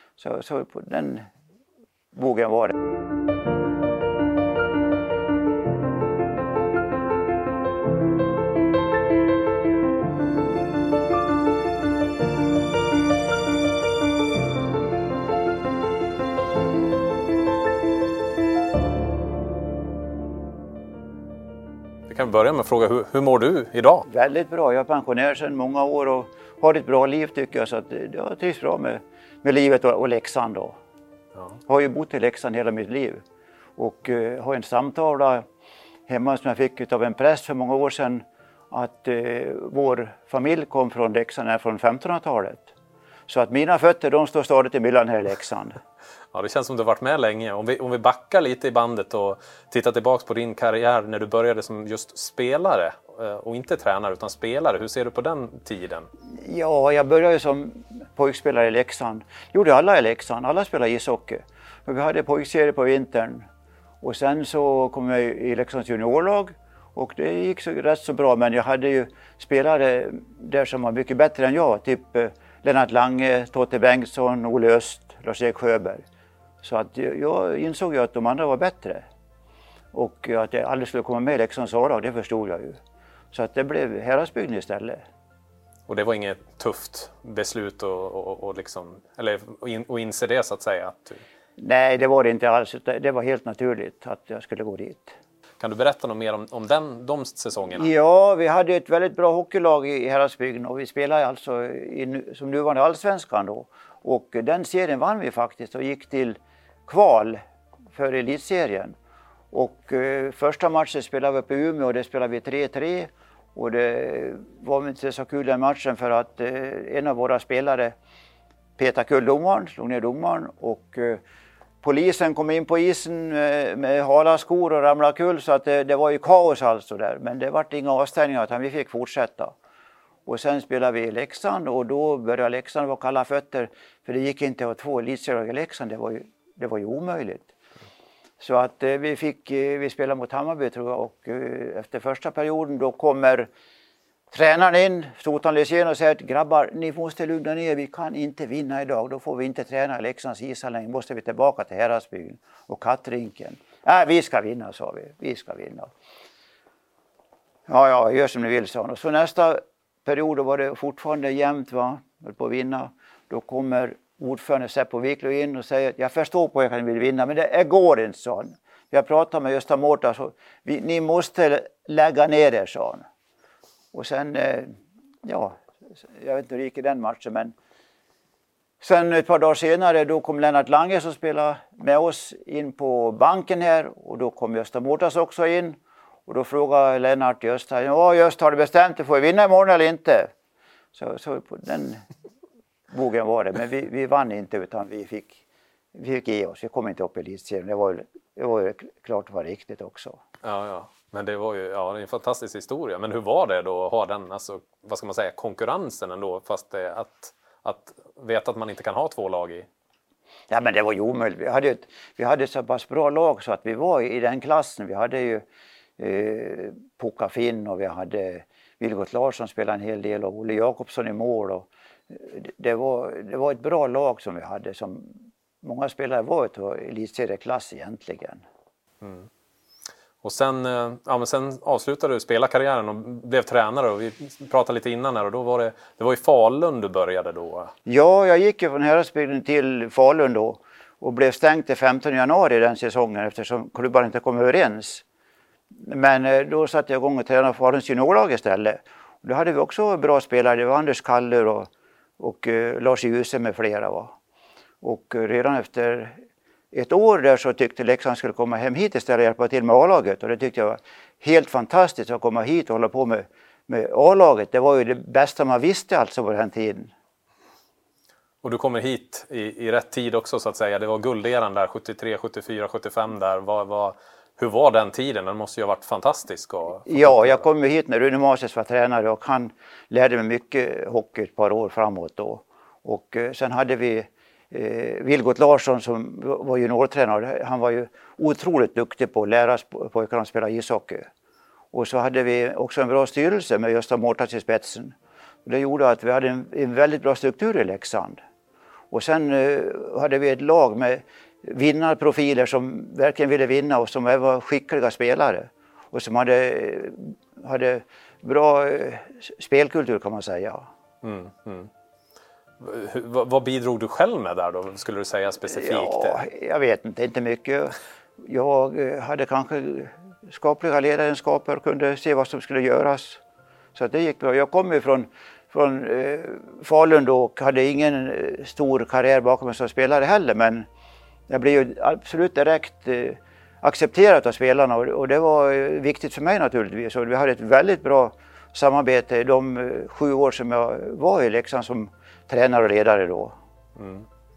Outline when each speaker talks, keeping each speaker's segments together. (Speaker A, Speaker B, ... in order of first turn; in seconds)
Speaker A: 0.2-1.3, 2.1-2.8, 24.1-30.8, 31.7-33.2, 33.8-35.4, 36.1-42.7, 43.3-45.8, 56.4-63.5, 64.0-76.0, 76.6-79.0, 79.9-82.8, 83.3-85.0, 91.6-95.2, 97.8-107.4, 107.9-108.9, 109.5-117.9, 118.8-121.2, 121.8-129.5, 130.2-137.5, 138.4-143.5, 144.3-155.9, 157.7-173.1, 173.9-177.5, 178.8-190.3, 190.9-192.0, 192.9-200.2, 210.5-215.4, 216.0-228.4, 237.9-245.1, 245.8-254.1, 254.8-256.2, 256.7-266.9, 276.9-291.1, 291.7-294.9, 295.4-298.2, 298.9-310.7, 315.5-323.2, 323.8-330.7, 331.3-343.3
Speaker B: 22.1-24.1, 46.3-56.1, 85.9-91.2, 95.6-97.9, 200.4-209.7, 229.0-229.3, 230.2-237.7, 268.4-277.4, 311.0-311.7, 312.6-316.2, 343.8-344.1